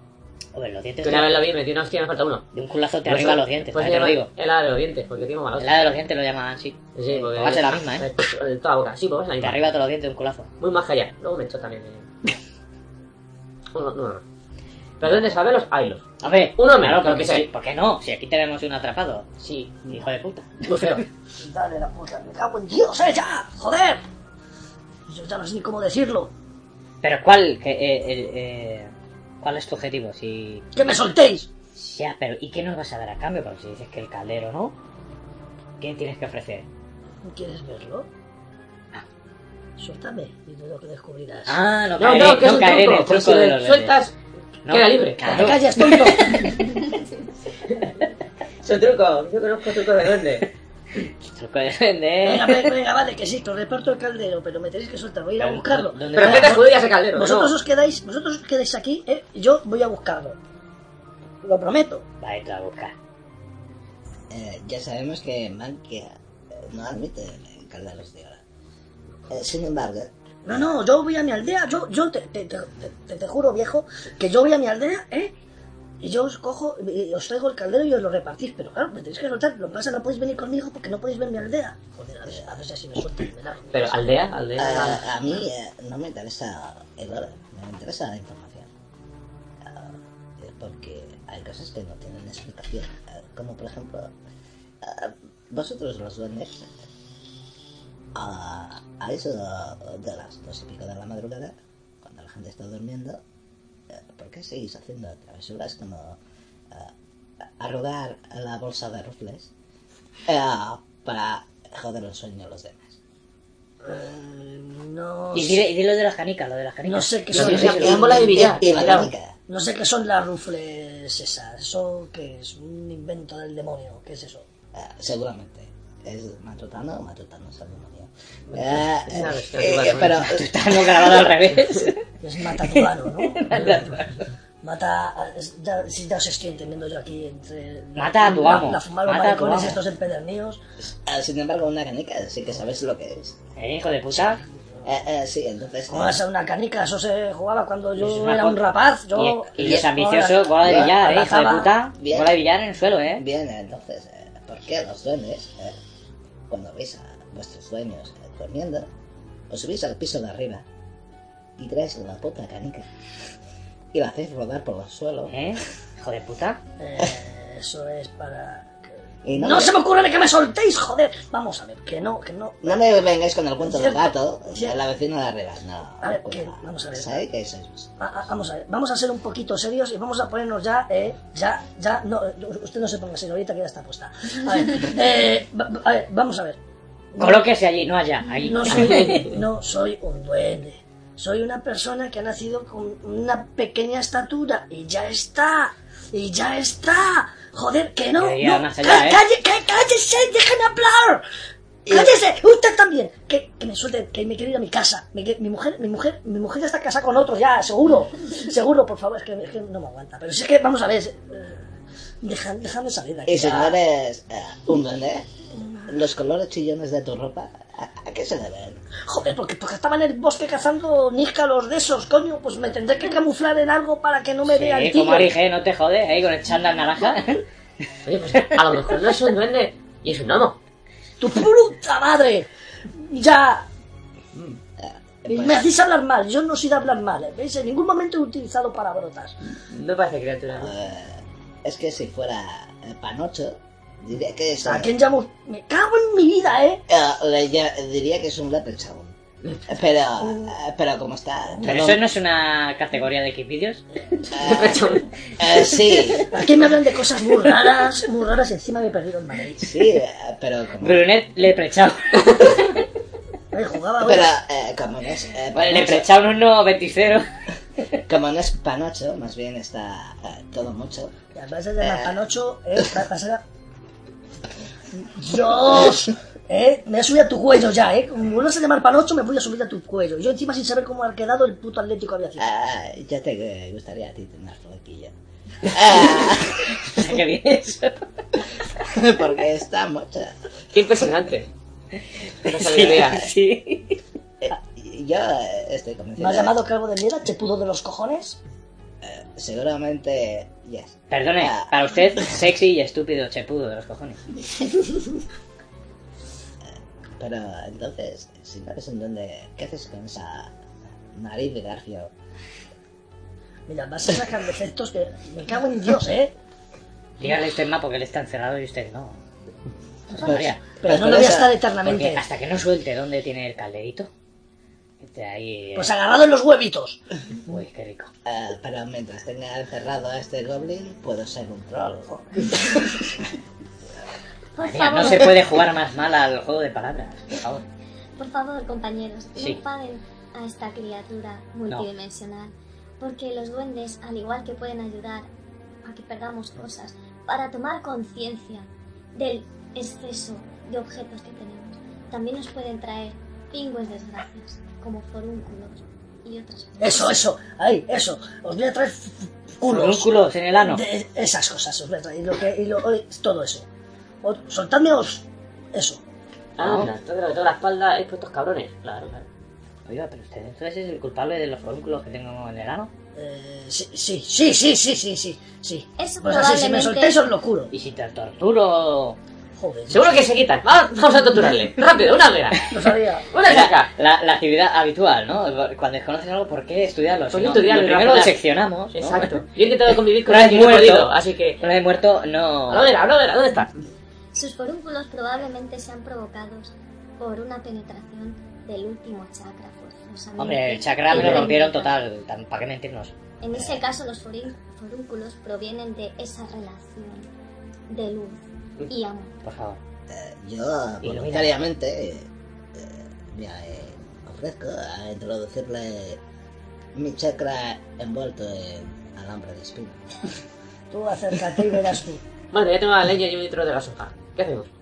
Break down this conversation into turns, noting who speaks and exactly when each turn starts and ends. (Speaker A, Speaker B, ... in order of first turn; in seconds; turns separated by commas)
Speaker A: 0.6-1.3, Speaker B: 1.0-2.5, Speaker A: 2.5-4.3, Speaker B: 3.1-6.0, Speaker A: 5.6-8.1, Speaker B: 7.0-9.6, Speaker A: 9.4-10.5, Speaker B: 10.6-12.1, Speaker B: 13.7-14.2, Speaker B: 15.0-17.5, Speaker A: 16.2-19.3, Speaker B: 19.4-19.9, Speaker A: 19.8-21.0, Speaker B: 20.7-21.0, Speaker C: 21.4-24.0, Speaker C: 25.1-26.3, Speaker A: 27.0-30.6, Speaker C: 30.7-31.5, Speaker A: 31.8-34.8, Speaker A: 35.8-36.7, Speaker C: 37.2-38.1, Speaker C: 39.8-41.6, Speaker A: 41.5-44.0, Speaker B: 42.0-44.1, Speaker A: 44.7-46.9, Speaker B: 44.7-45.2, Speaker C: 45.2-46.6, Speaker B: 48.6-50.5, Speaker A: 51.2-52.8, Speaker C: 52.2-60.4, Speaker A: 55.4-56.8, Speaker B: 56.1-57.5, Speaker C: 61.4-62.1, Speaker A: 62.2-62.9, Speaker D: 64.3-68.4, Speaker D: 69.3-70.1, Speaker C: 70.5-75.3, Speaker C: 76.0-84.0, Speaker B: 83.7-85.2, Speaker D: 84.6-88.7, Speaker D: 89.6-94.1, Speaker D: 94.8-96.7, Speaker D: 98.2-103.2, Speaker D: 103.9-106.2, Speaker D: 107.6-109.5, Speaker D: 110.3-113.0, Speaker C: 113.8-115.7, Speaker A: 115.3-118.0, Speaker C: 116.8-118.8, Speaker B: 117.3-119.1, Speaker D: 117.5-119.3, Speaker C: 119.5-124.5, Speaker D: 124.7-131.1, Speaker B: 128.5-130.3, Speaker A: 130.2-134.3, Speaker C: 132.2-134.0, Speaker C: 134.6-140.6, Speaker A: 138.0-139.8, Speaker D: 141.1-143.4, Speaker A: 143.6-144.4, Speaker D: 144.8-146.2, Speaker C: 145.9-151.7, Speaker A: 148.0-148.6, Speaker A: 149.2-153.2, Speaker D: 150.6-150.9, Speaker D: 152.0-152.4, Speaker D: 153.2-155.8, Speaker D: 156.5-158.9, Speaker D: 159.5-160.7, Speaker D: 161.6-162.9, Speaker D: 163.9-165.4, Speaker A: 165.3-166.6, Speaker C: 166.8-172.8, Speaker D: 169.2-169.8, Speaker D: 172.6-177.9, Speaker C: 173.6-174.8, Speaker C: 176.0-177.2, Speaker C: 178.0-186.6, Speaker C: 187.2-187.5, Speaker A: 187.2-189.3, Speaker C: 188.4-201.2, Speaker B: 188.7-189.3, Speaker A: 198.2-199.2, Speaker C: 201.8-211.6, Speaker C: 212.2-213.8, Speaker D: 213.3-215.3, Speaker D: 215.9-218.8, Speaker C: 219.1-225.3, Speaker A: 224.5-227.8, Speaker B: 228.1-230.6, Speaker C: 231.2-233.7, Speaker D: 234.8-235.7, Speaker C: 235.3-239.3, Speaker B: 239.7-240.7, Speaker D: 240.5-244.9, Speaker C: 244.6-246.8, Speaker D: 246.9-249.1, Speaker D: 249.7-252.0, Speaker A: 251.7-253.8, Speaker D: 254.3-256.3, Speaker B: 254.4-255.1, Speaker C: 256.3-259.8, Speaker D: 259.6-261.1, Speaker A: 260.8-262.8, Speaker C: 263.5-264.3, Speaker D: 264.0-266.1, Speaker A: 265.6-267.3, Speaker D: 268.1-271.1, Speaker C: 271.3-273.4, Speaker D: 271.8-272.2, Speaker C: 274.9-282.5, Speaker D: 282.4-285.1, Speaker A: 285.6-285.9, Speaker D: 285.7-287.2, Speaker A: 286.8-288.7, Speaker D: 288.8-290.4, Speaker B: 290.7-291.5, Speaker B: 292.4-293.3, Speaker A: 292.4-294.0, Speaker D: 294.4-296.6, Speaker C: 296.2-298.4, Speaker D: 299.0-301.7, Speaker A: 301.1-304.2, Speaker D: 307.2-310.5, Speaker D: 311.1-312.1, Speaker C: 313.7-316.3, Speaker A: 317.2-319.2, Speaker A: 320.1-320.7, Speaker D: 320.1-321.6, Speaker C: 320.8-322.3, Speaker A: 321.8-324.1, Speaker A: 325.0-325.9, Speaker C: 325.8-327.0, Speaker A: 327.5-328.1, Speaker D: 328.2-333.0, Speaker E: 334.6-335.4, Speaker A: 334.6-337.6, Speaker E: 338.2-345.3, Speaker E: 345.9-357.1, Speaker C: 356.8-363.7, Speaker A: 359.6-360.8, Speaker C: 364.2-366.0, Speaker B: 366.6-369.2, Speaker A: 366.6-366.9, Speaker A: 369.9-372.9, Speaker C: 373.1-377.7, Speaker E: 376.0-377.2, Speaker A: 377.7-379.2, Speaker C: 379.6-380.3, Speaker B: 379.9-382.7, Speaker C: 382.7-383.3, Speaker B: 383.3-383.9, Speaker A: 383.4-392.9, Speaker B: 387.3-388.4, Speaker B: 388.9-391.6, Speaker B: 392.7-393.7, Speaker E: 394.3-402.0, Speaker A: 400.4-403.1, Speaker B: 401.1-401.5, Speaker E: 403.4-407.3, Speaker E: 407.9-409.4, Speaker A: 409.4-409.8, Speaker D: 410.1-416.2, Speaker A: 411.0-411.5, Speaker D: 416.9-420.2, Speaker C: 420.9-422.2, Speaker B: 422.5-424.7